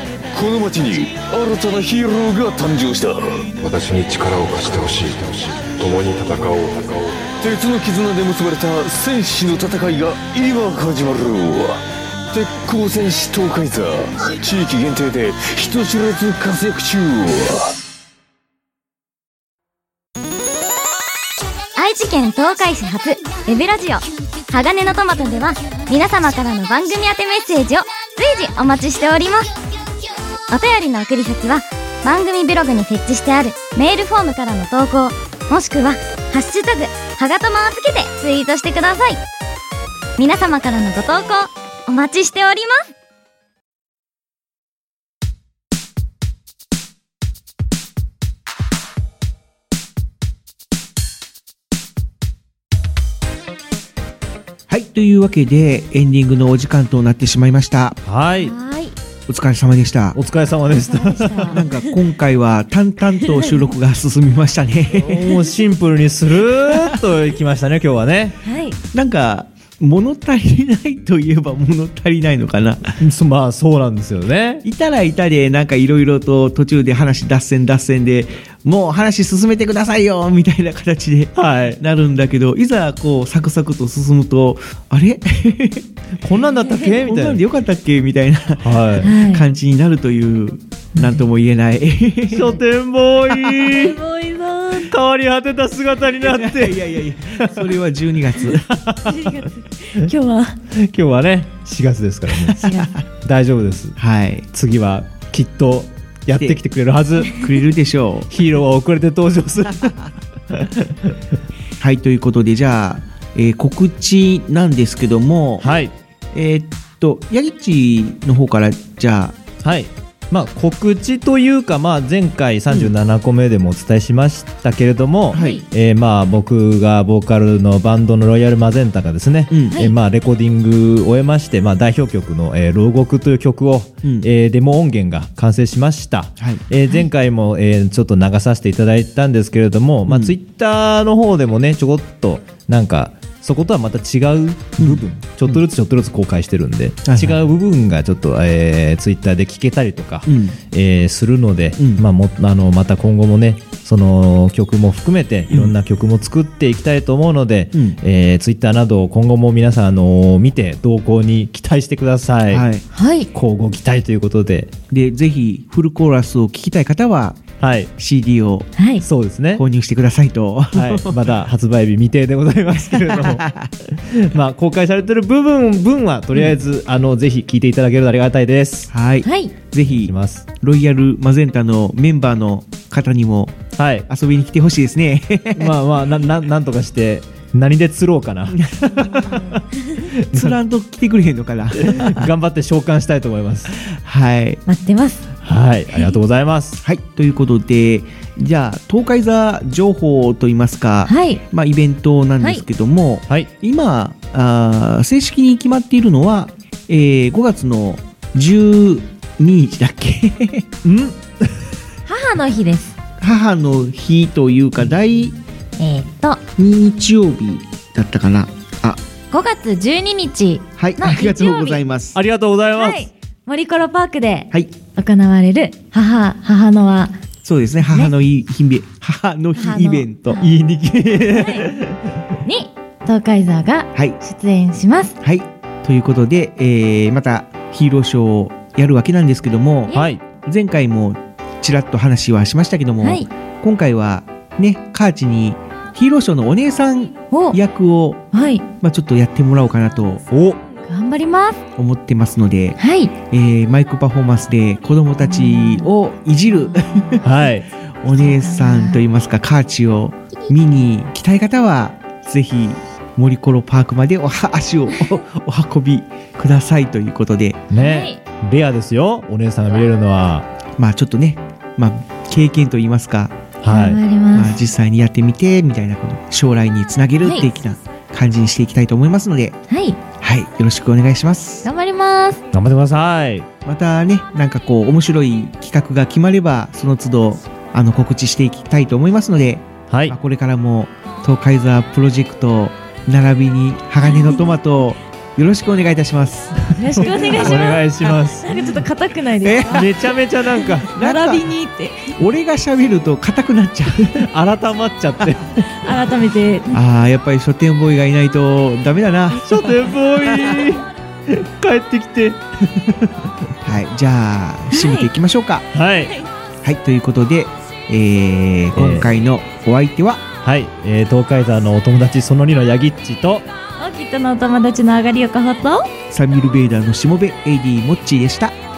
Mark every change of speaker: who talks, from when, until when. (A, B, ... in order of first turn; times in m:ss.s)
0:00.3-0:03.5 A
0:03.6-0:07.2 B
0:07.4-0:17.8 A
0:21.8-0:29.6 C
0:30.5-0:39.2 C
0:40.2-0:42.9 C
0:54.7-0:58.0 D
0:58.0-0:58.5 E
0:58.4-0:59.0 F
0:59.3-1:00.2 D
1:00.2-1:01.6 E
1:00.8-1:01.6 F
1:01.5-1:05.3 D
1:03.3-1:03.6 F
1:05.0-1:08.4 E
1:06.7-1:07.0 D
1:08.4-1:08.8 F
1:08.9-1:12.9 D
1:13.0-1:14.6 E
1:14.6-1:25.9 D
1:21.4-1:21.8 E
1:26.2-1:27.4 E
1:27.0-1:32.6 D
1:28.6-1:29.1 E
1:29.0-1:29.5 F
1:32.3-1:34.0 E
1:33.6-1:34.9 F
1:34.8-1:37.6 E
1:36.3-1:38.7 D
1:38.7-1:39.3 E
1:39.1-1:40.6 F
1:40.7-1:42.6 E
1:42.3-1:43.0 D
1:42.6-1:42.9 F
1:43.2-1:44.0 E
1:44.0-1:44.5 D
1:44.5-1:47.4 E
1:47.3-1:48.3 D
1:48.3-1:50.9 E
1:51.8-1:55.7 D
1:55.6-1:55.9 E
1:56.3-1:59.4 D
1:59.6-2:42.7 E
2:05.3-2:05.6 D
2:05.3-2:05.6 F
2:09.5-2:09.8 D
2:20.1-2:20.4 D
2:24.8-2:25.6 D
2:27.1-2:27.4 D
2:30.3-2:30.6 D
2:31.8-2:32.0 D
2:37.7-2:38.0 D
2:42.5-2:42.8 D
2:42.9-2:43.3 F
2:43.3-2:44.7 E
2:44.9-2:47.4 D
2:47.6-2:47.9 E
2:48.0-2:48.7 D
2:48.8-2:49.0 F
2:49.0-2:49.6 E
2:49.5-2:51.3 D
2:50.7-2:58.9 E
2:52.9-2:53.7 D
2:58.9-3:05.8 D
2:59.2-2:59.5 F
2:59.8-3:00.5 E
3:03.8-3:04.1 E
3:05.6-3:10.6 E
3:08.5-3:09.4 D
3:10.3-3:12.3 D
3:11.8-3:13.8 E
3:13.8-3:14.6 D
3:14.7-3:15.3 F
3:15.4-3:16.8 E
3:16.8-3:30.7 D
3:21.0-3:21.4 F
3:30.8-3:31.6 E
3:32.1-3:33.0 F
3:33.2-3:35.4 D
3:35.8-3:36.4 F
3:36.6-3:39.0 D
3:39.3-3:41.8 F
3:40.8-3:42.2 D
3:42.2-3:43.1 E
3:42.8-3:47.2 F
3:47.4-3:50.5 D
3:47.8-3:48.1 F
3:49.6-3:50.5 F
3:50.4-3:52.0 E
3:51.3-3:51.7 F
3:52.4-3:55.2 F
3:55.2-4:08.2 D
3:59.9-4:00.2 E
4:03.0-4:03.3 F
4:07.3-4:07.6 F
4:08.3-4:08.7 F
4:08.8-4:10.2 D
4:10.3-4:10.6 E
4:10.8-4:11.6 F
4:11.8-4:17.3 D
4:12.8-4:13.2 F
4:15.2-4:15.9 F
4:16.6-4:17.2 F
4:17.2-4:17.7 E
4:18.0-4:27.6 D
4:18.1-4:19.0 F
4:27.7-4:30.5 E
4:27.7-4:28.2 F
4:30.8-4:33.4 D
4:33.6-4:34.0 E
4:33.7-4:34.6 F
4:34.3-4:39.6 D
4:37.2-4:37.5 F
4:39.7-4:40.0 F
4:40.2-4:41.7 D
4:41.6-4:42.4 F
4:42.5-4:43.5 E
4:43.6-4:57.6 D
4:54.1-4:54.4 F
4:56.7-4:59.9 F
4:57.0-4:58.6 E
4:59.4-5:00.0 D
4:59.7-5:00.9 E
5:00.6-5:02.1 F
5:00.9-5:01.5 D
5:02.2-5:04.3 D
5:04.2-5:05.6 E
5:05.8-5:06.8 F
5:06.7-5:10.6 D
5:09.4-5:13.3 E
5:13.6-5:15.7 D
5:14.7-5:15.1 F
5:15.7-5:16.1 E
5:16.6-5:20.2 D
5:18.7-5:19.1 E
5:20.4-5:23.5 E
5:23.8-5:25.9 F
5:26.1-5:28.6 D